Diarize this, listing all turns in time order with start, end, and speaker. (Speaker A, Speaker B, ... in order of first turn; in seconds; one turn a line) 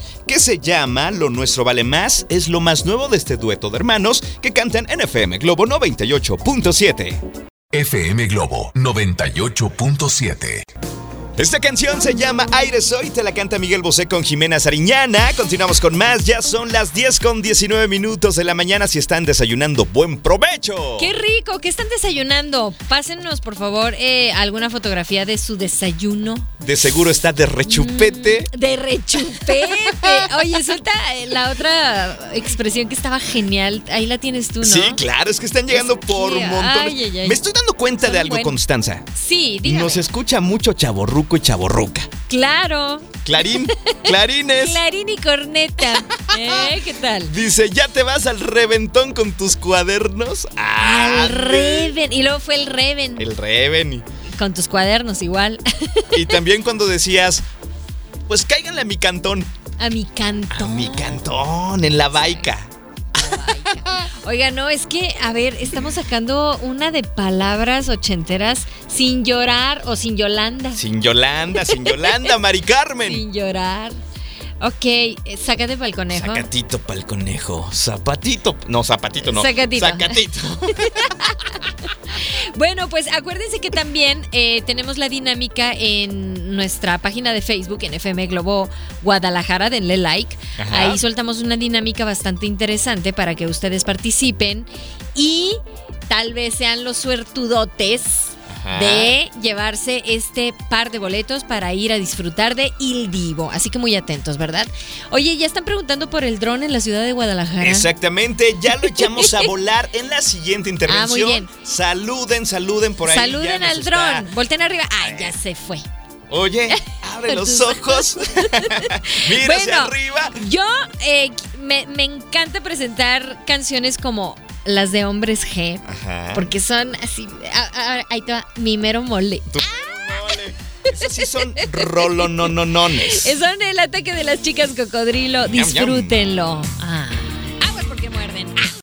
Speaker A: 0.3-7.2
Speaker B: 7.7-10.6
Speaker A: 11.4-21.1
Speaker C: 21.0-26.5
Speaker A: 26.6-28.5
Speaker C: 27.7-35.0
Speaker A: 29.3-30.3
Speaker A: 34.6-39.1
Speaker C: 35.7-37.4
Speaker C: 38.0-38.6
Speaker C: 39.1-40.0
Speaker A: 39.6-42.1
Speaker C: 42.3-47.3
Speaker A: 43.2-44.8
Speaker A: 46.2-46.7
Speaker A: 47.3-51.9
Speaker C: 50.8-53.3
Speaker A: 53.2-54.0
Speaker C: 54.4-56.4
Speaker A: 56.1-57.4
Speaker A: 58.3-59.5
Speaker C: 59.8-61.2
Speaker A: 60.5-62.7
Speaker C: 62.1-62.5
Speaker C: 63.1-70.8
Speaker A: 70.8-73.2
Speaker C: 71.6-72.3
Speaker C: 73.0-74.0
Speaker C: 74.6-76.5
Speaker A: 76.1-81.1
Speaker C: 79.2-80.2
Speaker C: 80.8-107.9
Speaker A: 90.6-91.0
Speaker A: 98.5-99.1
Speaker A: 107.6-114.3
Speaker C: 108.7-109.5
Speaker C: 110.9-111.5
Speaker C: 113.0-115.8
Speaker A: 115.0-115.3
Speaker A: 116.3-120.4
Speaker C: 116.7-138.7
Speaker A: 125.9-126.5
Speaker A: 129.5-133.4
Speaker A: 135.5-136.2